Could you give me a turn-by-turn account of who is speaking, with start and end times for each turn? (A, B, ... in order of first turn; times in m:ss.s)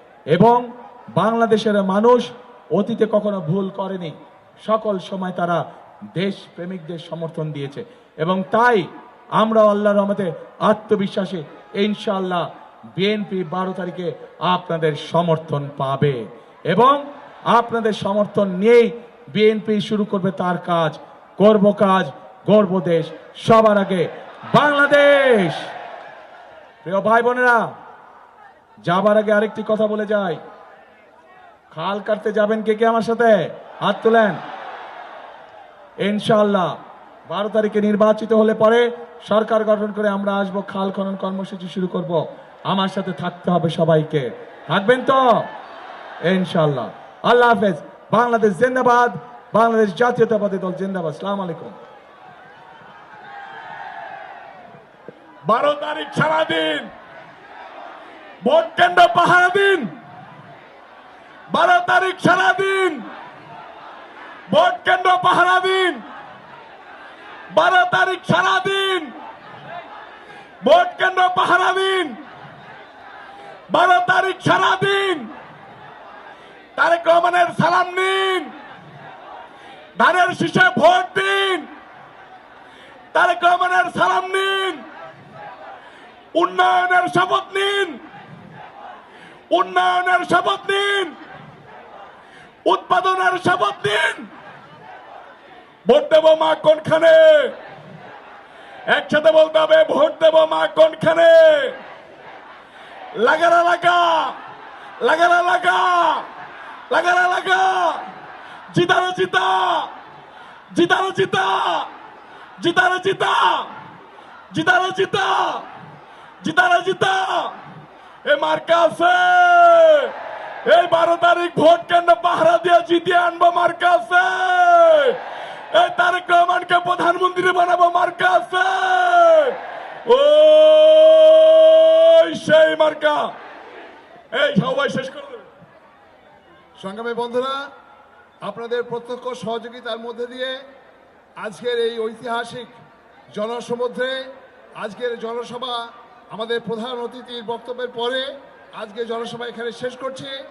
0:00.3-0:05.6 A
0:06.1-0:25.7 A
0:26.8-0:27.7 A
0:28.8-0:30.4 A
0:31.7-0:34.4 A
0:36.0-0:36.7 A
0:37.3-0:45.5 A
0:46.2-0:51.8 A
0:55.5-0:56.9 B
0:55.5-0:56.6 A
0:58.5-0:59.8 B
0:58.5-0:59.8 A
1:01.5-1:03.0 B
1:01.6-1:02.7 A
1:04.5-1:06.0 B
1:04.5-1:05.8 A
1:07.5-1:09.1 B
1:10.6-1:12.2 B
1:11.3-1:11.8 A
1:13.7-1:15.3 B
1:14.1-1:15.0 A
1:16.8-1:18.5 B
1:20.0-1:21.7 B
1:23.1-1:24.8 B
1:23.7-1:24.0 A
1:26.3-1:28.0 B
1:27.2-1:27.6 A
1:29.5-1:31.1 B
1:30.0-1:30.7 A
1:32.6-1:34.3 B
1:33.1-1:34.0 A
1:35.8-1:37.5 B
1:36.3-1:36.9 A
1:38.9-1:41.8 B
1:39.5-1:41.0 A
1:43.2-1:44.4 B
1:45.0-1:46.2 A
1:45.0-1:46.3 B
1:46.9-1:48.1 B
1:46.9-1:47.8 A
1:48.7-1:49.9 B
1:49.0-1:49.4 A
1:50.7-1:51.9 B
1:51.2-1:51.6 A
1:52.6-1:53.7 B
1:52.8-1:53.7 A
1:54.5-1:55.6 A
1:54.6-1:55.6 B
1:56.4-1:57.1 A
1:56.5-1:57.6 B
1:58.2-2:00.1 B
1:59.2-1:59.4 A
2:00.6-2:05.2 B
2:05.7-2:09.6 B
2:06.5-2:08.8 A
2:10.1-2:13.3 B
2:12.3-2:12.8 A
2:14.3-2:15.4 B
2:16.8-2:17.6 C
2:18.4-2:20.6 C
2:21.4-2:22.7 C
2:23.3-2:30.4 C